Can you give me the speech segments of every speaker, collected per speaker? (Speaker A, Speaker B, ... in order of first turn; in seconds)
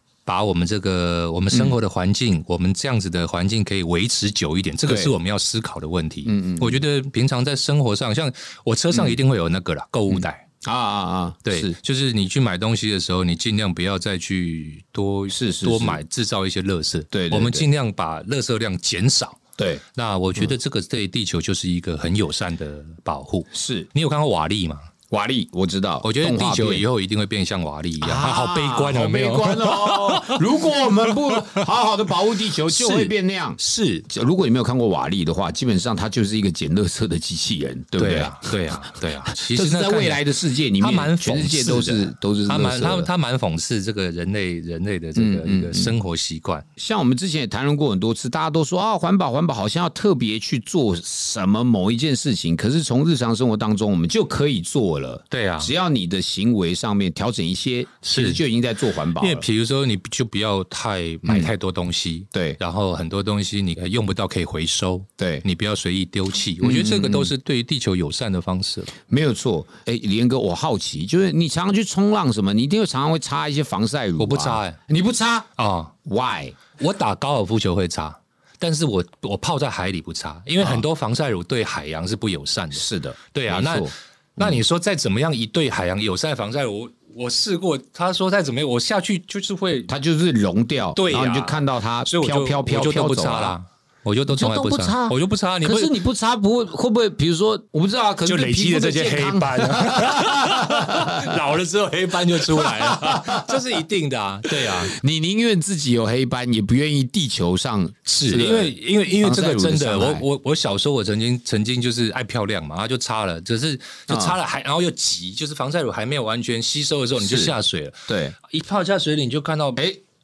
Speaker A: 0.3-10.4, 11.4-19.4, 19.9-24.9, 26.0-30.4, 31.0-31.6, 32.6-34.1, 38.0-40.3, 40.8-46.7, 55.3-55.7, 58.0-58.4, 59.2-69.0, 74.2-74.8, 75.6-75.9, 76.8-89.9, 91.0-96.0, 98.2-105.0, 108.0-119.8
Speaker B: 1.5-1.8, 4.9-5.1, 6.3-6.8, 8.9-9.2, 10.1-11.8, 15.3-16.0, 17.1-17.7, 19.6-19.8, 23.5-23.9, 25.1-26.8, 28.0-38.5, 39.3-43.1, 45.2-45.9, 46.8-59.5, 61.3-61.5, 62.3-62.6, 65.2-65.5, 66.6-67.3, 69.1-75.5, 76.0-76.6, 82.7-84.6, 89.9-93.6, 94.3-101.4, 102.3-103.6, 104.5-110.2, 114.1-114.4, 117.2-117.5, 118.1-118.4